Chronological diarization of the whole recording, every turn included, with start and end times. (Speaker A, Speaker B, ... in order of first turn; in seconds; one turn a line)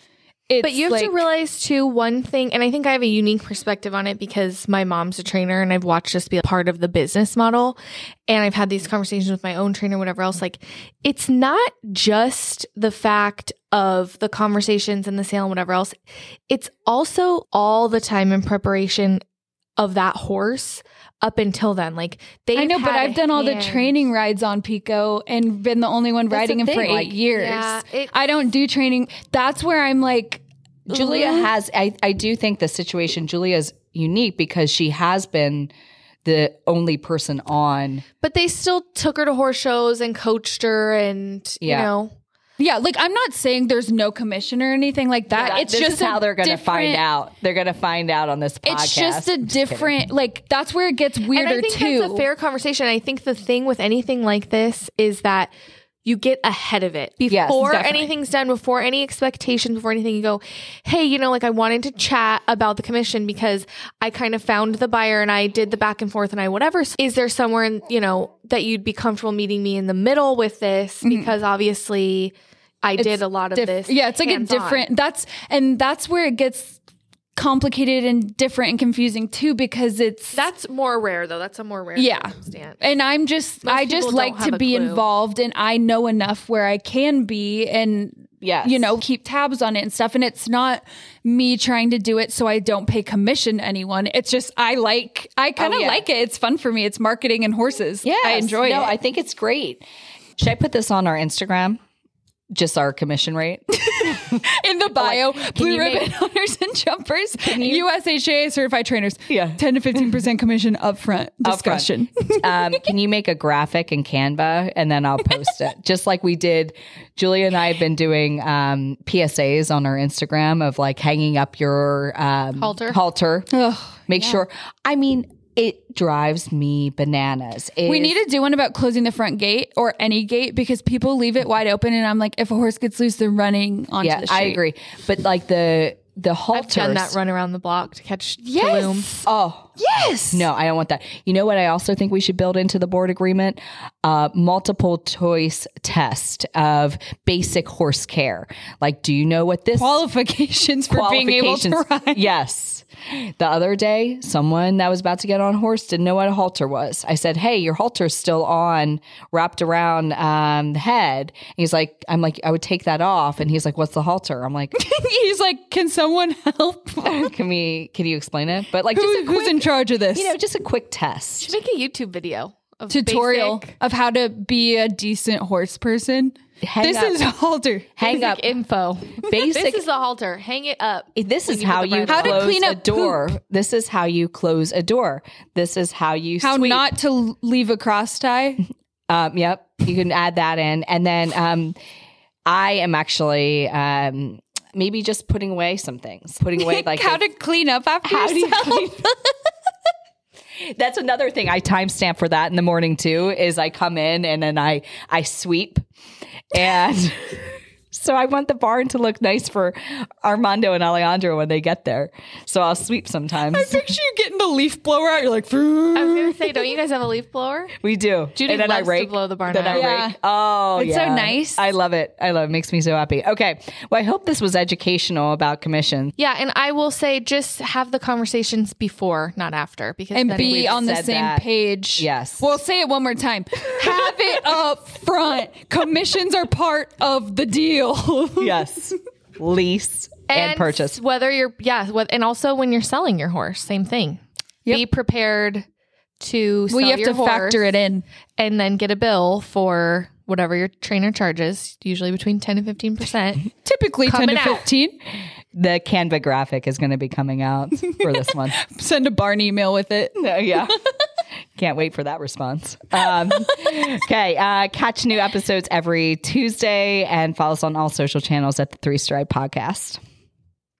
Speaker A: 0.5-1.2
Speaker B: 0.6-16.0
Speaker B: 16.5-19.2
Speaker B: 19.8-24.0
Speaker A: 22.5-31.5
Speaker C: 26.3-27.2
Speaker B: 27.3-28.1
Speaker C: 30.9-35.7
Speaker C: 36.2-38.0
Speaker B: 38.2-42.1
Speaker C: 41.6-41.9
Speaker A: 42.6-47.0
Speaker B: 45.3-45.6
Speaker C: 45.4-49.9
Speaker A: 48.6-52.2
Speaker B: 51.3-55.5
Speaker B: 56.0-74.9
Speaker C: 57.3-58.1
Speaker A: 71.0-71.3
Speaker A: 73.0-76.8
Speaker A: 77.4-80.5
Speaker B: 80.3-82.8
Speaker A: 82.0-98.9
Speaker B: 83.6-85.1
Speaker C: 88.4-89.0
Speaker C: 95.6-96.0
Speaker C: 98.0-99.8
Speaker C: 100.4-101.8
Speaker C: 102.5-104.4
Speaker A: 103.9-112.6
Speaker C: 105.0-106.1
Speaker C: 107.4-107.9
Speaker C: 109.3-109.6
Speaker C: 111.4-123.5
Speaker B: 122.6-123.0
Speaker A: 123.5-124.4
Speaker C: 124.1-128.2
Speaker A: 127.8-134.6
Speaker C: 134.0-137.2
Speaker B: 136.5-139.1
Speaker A: 138.4-139.3
Speaker C: 139.2-139.7
Speaker A: 139.8-140.5
Speaker C: 140.3-150.0
Speaker A: 149.7-152.2
Speaker C: 150.9-164.7
Speaker A: 164.7-167.3
Speaker C: 167.0-171.5
Speaker A: 168.9-170.3
Speaker B: 171.4-173.7
Speaker A: 172.9-177.9
Speaker C: 176.6-177.2
Speaker C: 178.0-178.6
Speaker B: 178.0-182.5
Speaker C: 179.2-179.8
Speaker C: 181.2-186.9
Speaker A: 182.1-183.3
Speaker A: 186.4-188.7
Speaker C: 189.1-191.8
Speaker C: 192.5-197.2
Speaker A: 196.6-199.3
Speaker C: 198.0-199.0
Speaker C: 200.6-205.8
Speaker C: 206.5-207.3
Speaker C: 207.9-213.9
Speaker A: 213.5-216.7
Speaker B: 215.9-217.7
Speaker C: 217.8-226.1
Speaker B: 218.4-219.9
Speaker A: 219.7-220.2
Speaker A: 220.8-221.6
Speaker B: 226.2-230.9
Speaker A: 230.1-238.6
Speaker C: 230.3-232.6
Speaker C: 238.4-241.0
Speaker B: 240.3-245.7
Speaker B: 246.2-247.7
Speaker A: 246.7-248.0
Speaker B: 248.4-253.5
Speaker A: 253.6-255.0
Speaker B: 254.0-254.7
Speaker C: 255.5-258.6
Speaker A: 258.6-260.7
Speaker C: 260.1-260.8
Speaker C: 261.6-270.0